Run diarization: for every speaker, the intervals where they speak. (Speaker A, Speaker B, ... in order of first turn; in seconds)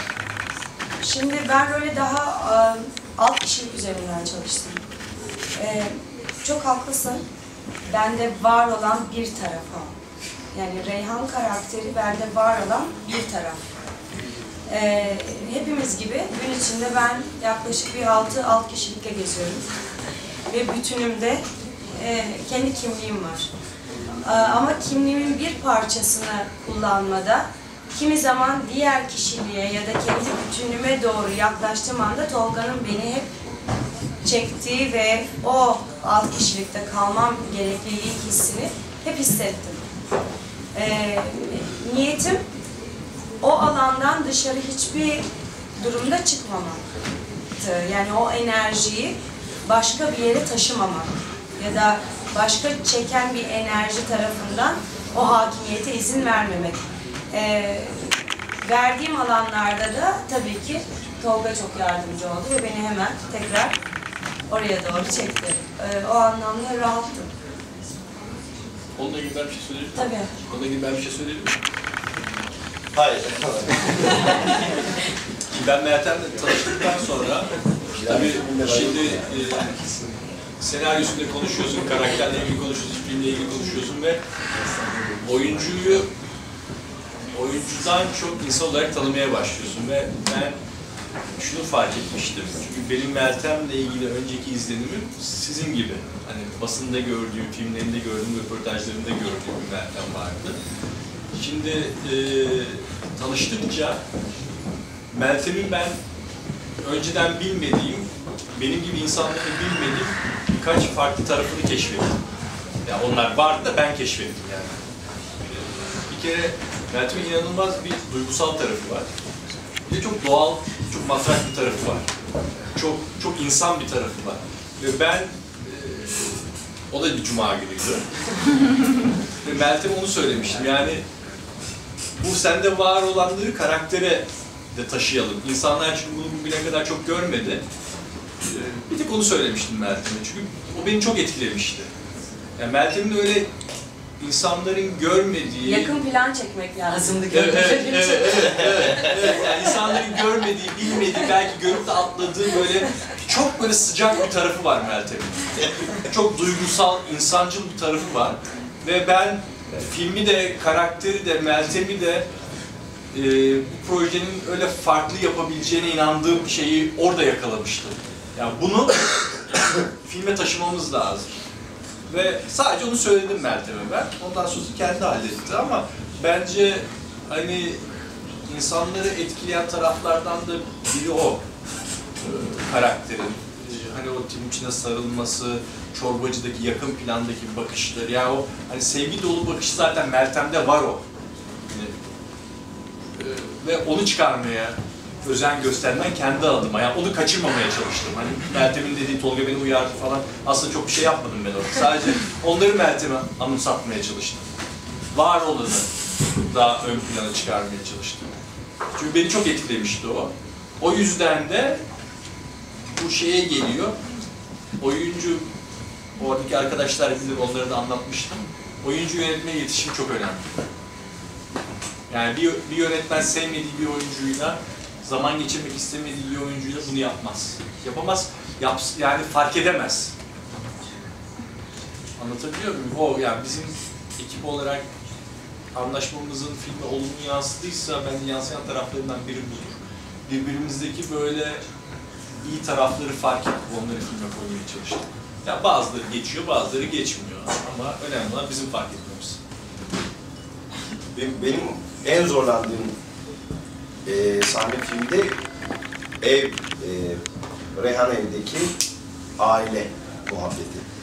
Speaker A: 1.0-4.8, 5.6-7.2, 7.9-9.9, 10.5-13.6, 14.7-19.6, 20.5-21.4, 21.9-23.5, 24.2-33.3, 34.2-39.8, 40.8-42.4, 43.4-45.2, 45.8-46.8, 47.6-63.8, 64.5-67.3, 70.0-70.3, 145.6-149.2
Speaker B: 69.0-71.6, 75.5-77.5, 78.0-80.1, 80.6-84.2, 85.2-86.1, 87.3-90.6, 91.3-100.6, 101.3-104.0, 105.1-106.0, 106.8-112.2, 112.8-114.8, 115.5-119.1, 119.9-122.1, 122.8-128.1, 129.4-131.0, 132.2-137.6, 138.4-141.9, 142.6-143.5, 144.2-145.9, 147.3-162.3, 163.1-171.3, 172.1-177.8, 178.5-181.4, 182.2-191.0, 191.7-191.9, 193.2-204.5, 205.1-205.9, 206.5-208.3, 208.9-211.8, 212.9-214.0, 214.8-215.4, 216.2-220.5, 222.1-230.1, 232.2-234.8, 235.7-241.6, 242.4-249.4
Speaker C: 72.9-74.2, 77.9-79.2, 251.1-252.9, 254.1-255.3, 256.2-257.2, 257.7-258.8, 259.4-260.8